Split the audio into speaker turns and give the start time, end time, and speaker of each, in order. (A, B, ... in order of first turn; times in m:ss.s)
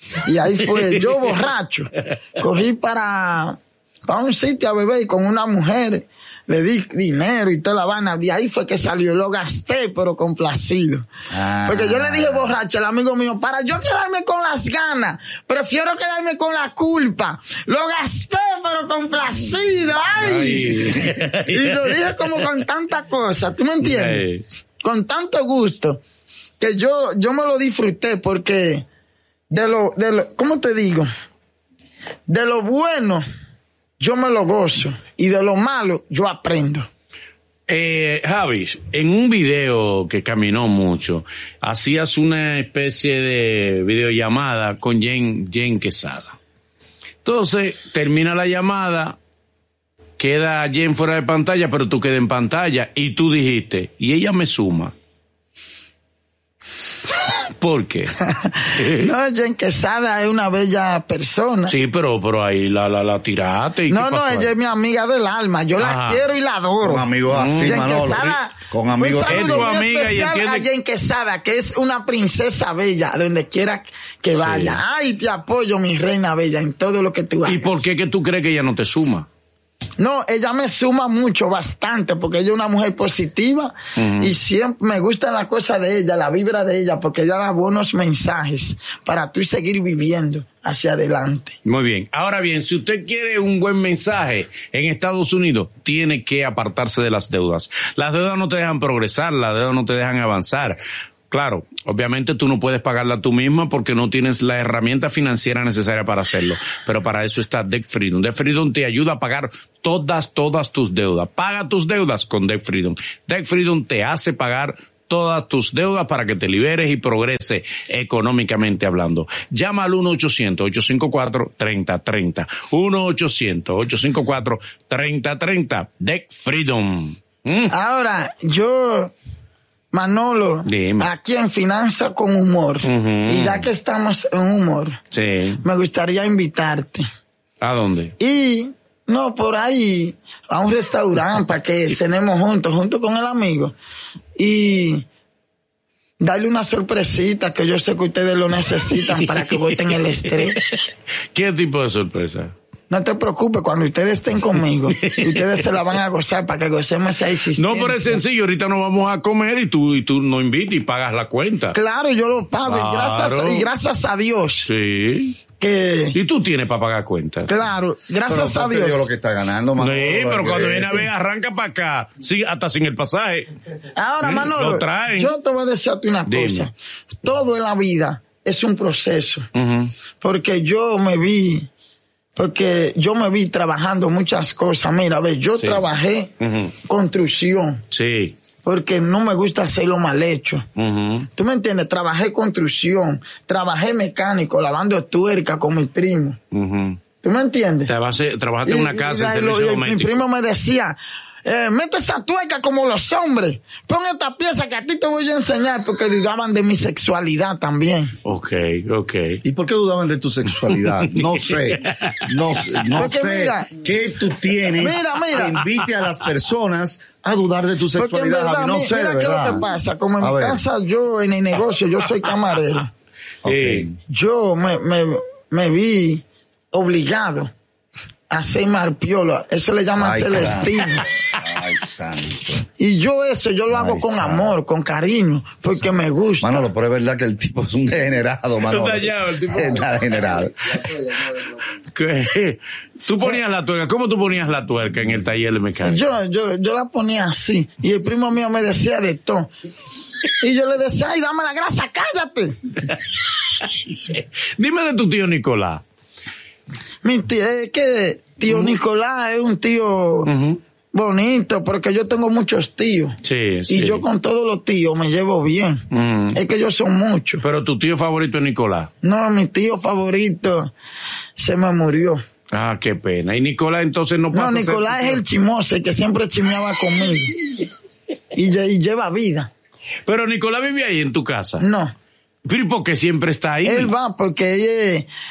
0:00.2-0:11.1 A
0:00.8-0:01.3 B
0:11.3-0:12.5 C
0:11.6-0:24.2 A
0:20.2-0:22.5 B
0:23.8-0:24.4 B
0:24.8-0:26.0 A
0:26.6-0:28.8 A
0:29.5-0:31.1 A
0:32.3-0:33.2 A
0:34.0-0:36.9 A
0:37.7-0:46.4 B
0:47.2-0:49.2 B
0:50.2-0:54.9 B
0:57.6-0:58.2 B
0:58.3-1:01.7 A
0:58.7-0:59.1 B
1:01.7-1:04.5 B
1:03.9-1:07.1 A
1:05.8-1:06.2 B
1:06.8-1:09.7 C
1:07.3-1:08.4 B
1:07.6-1:17.8 A
1:09.2-1:10.6 B
1:14.4-1:14.8 B
1:17.4-1:19.3 B
1:20.0-1:31.6 A
1:24.0-1:24.3 B
1:31.6-2:07.7 B
2:07.7-2:09.1 A
2:09.9-2:15.0 A
2:10.6-2:11.1 B
2:12.8-2:13.7 B
2:15.1-2:15.6 B
2:15.6-2:17.0 A
2:17.6-2:18.1 B
2:18.2-2:23.7 A
2:24.4-2:25.0 A
2:26.2-2:30.6 A
2:29.0-2:30.6 B
2:31.3-2:32.5 B
2:32.9-2:38.2 A
2:35.0-2:35.7 B
2:37.6-2:41.8 B
2:41.7-2:44.7 A
2:42.6-2:43.7 B
2:44.6-2:45.4 B
2:45.6-2:46.2 A
2:46.1-2:47.7 B
2:47.5-2:49.1 A
2:48.3-2:51.1 C
2:49.8-2:53.5 B
2:54.0-2:59.5 A
2:54.2-2:55.3 B
2:56.3-2:56.7 B
2:59.5-2:59.9 B
3:00.2-3:01.7 A
3:02.4-3:06.3 A
3:06.4-3:06.7 B
3:06.8-3:07.8 A
3:07.9-3:08.4 B
3:08.6-3:10.6 A
3:10.8-3:11.3 B
3:11.3-3:16.4 A
3:16.5-3:17.0 B
3:17.2-3:17.9 A
3:17.9-3:20.2 B
3:18.6-3:28.1 A
3:28.2-3:29.4 B
3:29.4-3:39.6 C
3:30.7-3:33.0 B
3:33.0-3:33.7 A
3:34.8-3:35.6 A
3:35.6-3:35.9 B
3:38.0-3:42.9 A
3:40.2-3:40.6 C
3:43.4-3:44.0 C
3:43.4-3:43.9 B
3:44.1-3:47.5 A
3:48.3-3:51.0 A
3:50.0-3:52.6 C
3:52.8-3:56.7 A
3:53.7-3:54.5 C
3:56.4-4:00.7 C
3:58.7-4:00.0 B
4:01.9-4:06.0 B
4:05.8-4:09.5 A
4:10.4-4:12.6 A
4:13.6-4:15.8 B
4:17.0-4:20.3 A
4:18.5-4:18.7 B
4:20.2-4:20.6 B
4:20.9-4:23.2 A
4:23.2-4:24.0 B
4:23.7-4:27.4 A
4:25.9-4:26.4 B
4:27.4-4:28.9 B
4:29.0-4:30.7 A
4:31.4-4:32.2 A
4:32.5-4:35.2 B
4:34.3-4:37.4 A
4:38.3-4:39.5 A
4:40.0-4:41.6 B
4:41.6-4:41.9 A
4:42.4-4:43.9 B
4:43.6-4:45.1 A